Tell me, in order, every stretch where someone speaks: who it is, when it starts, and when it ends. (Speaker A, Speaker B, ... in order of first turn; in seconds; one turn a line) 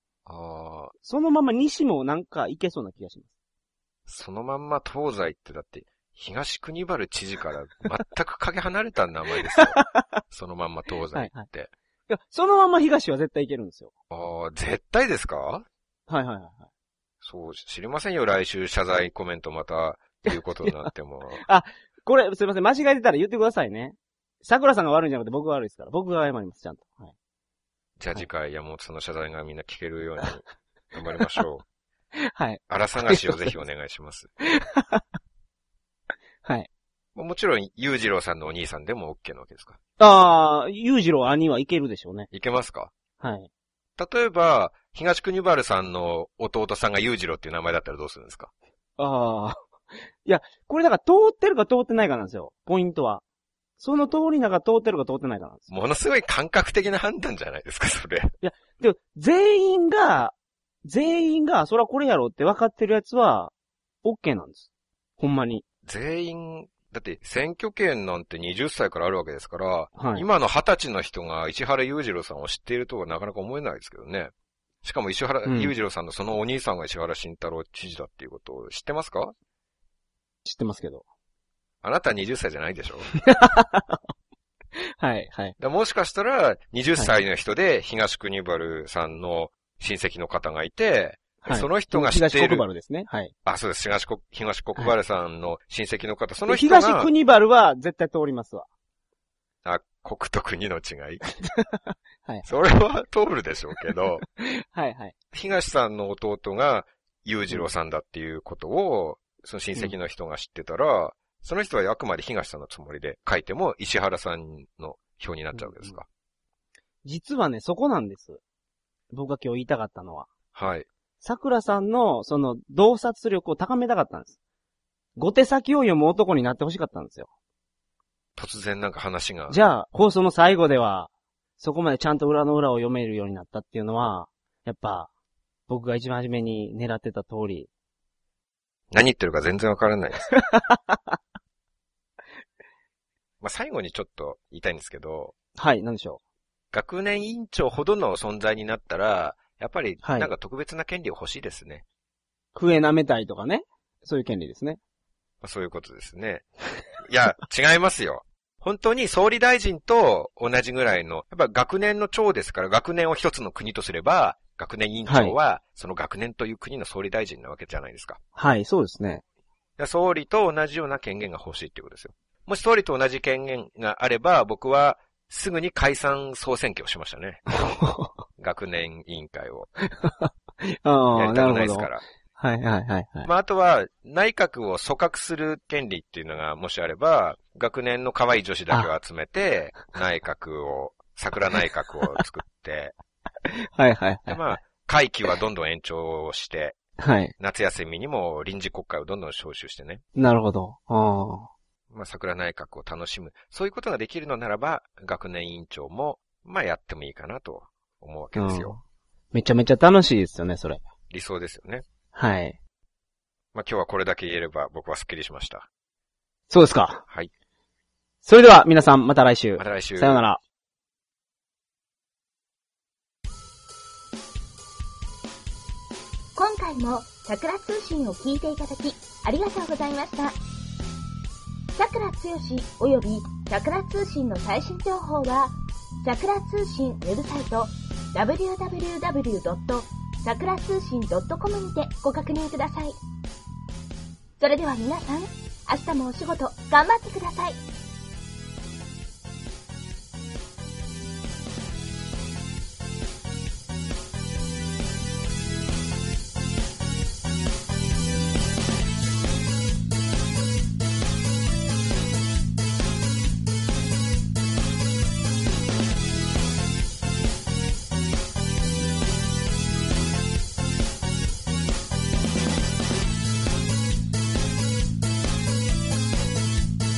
Speaker A: 0.2-0.9
Speaker B: 1.0-3.3
Speaker A: 4.1-11.7
Speaker B: 9.4-10.0
Speaker B: 11.1-11.5
Speaker B: 12.1-13.9
Speaker A: 14.1-15.7
Speaker B: 16.1-16.6
Speaker A: 17.2-21.4
Speaker B: 20.3-27.1
Speaker A: 28.0-31.6
Speaker B: 32.2-33.6
Speaker A: 32.7-34.3
Speaker B: 34.5-35.0
Speaker A: 37.1-39.8
Speaker B: 40.0-42.3
Speaker A: 42.3-42.9
Speaker B: 43.2-43.5
Speaker A: 44.0-48.5
Speaker B: 49.0-49.6
Speaker B: 50.2-53.2
Speaker B: 53.8-55.7
Speaker A: 55.7-58.3
Speaker B: 58.4-60.3
Speaker B: 60.8-63.5
Speaker B: 64.0-64.7
Speaker B: 65.2-65.6
Speaker A: 65.8-74.3
Speaker B: 70.0-70.2
Speaker A: 74.8-79.3
Speaker B: 75.4-75.7
Speaker B: 80.4-81.0
Speaker A: 81.8-83.1
Speaker B: 83.1-84.0
Speaker B: 85.0-85.5
Speaker A: 85.6-92.7
Speaker B: 91.4-93.3
Speaker A: 93.4-97.1
Speaker B: 96.5-98.7
Speaker A: 99.6-101.2
Speaker B: 101.4-102.5
Speaker A: 102.4-104.2
Speaker B: 104.4-105.1
Speaker A: 105.3-116.1
Speaker B: 115.5-116.0
Speaker B: 117.0-118.4
Speaker B: 119.1-120.3
Speaker A: 120.5-120.9
Speaker B: 121.2-124.3
Speaker B: 125.2-127.3
Speaker A: 128.3-129.6
Speaker B: 129.5-135.1
Speaker B: 135.7-137.7
Speaker A: 138.9-140.3
Speaker B: 140.3-141.2
Speaker A: 143.4-145.3
Speaker B: 145.6-146.2
Speaker A: 146.7-151.8
Speaker B: 150.0-150.3
Speaker B: 152.5-154.8
Speaker A: 155.4-156.4
Speaker A: 157.0-168.2
Speaker B: 165.1-165.3
Speaker B: 168.3-169.2
Speaker A: 169.8-177.4
Speaker B: 177.6-178.1
Speaker A: 178.4-179.7
Speaker B: 179.9-183.3
Speaker A: 181.1-182.0
Speaker A: 183.2-192.9
Speaker B: 193.5-194.6
Speaker A: 194.3-196.8
Speaker B: 197.0-197.3
Speaker A: 197.4-200.0
Speaker B: 200.2-201.5
Speaker A: 201.9-208.7
Speaker B: 208.3-208.8
Speaker B: 209.3-210.8
Speaker A: 211.1-211.8
Speaker B: 212.1-212.6
Speaker A: 213.5-215.7
Speaker B: 216.5-217.0
Speaker B: 218.2-220.4
Speaker A: 219.6-220.2
Speaker C: 226.3-230.3
Speaker C: 231.7-242.9
Speaker C: 244.4-247.6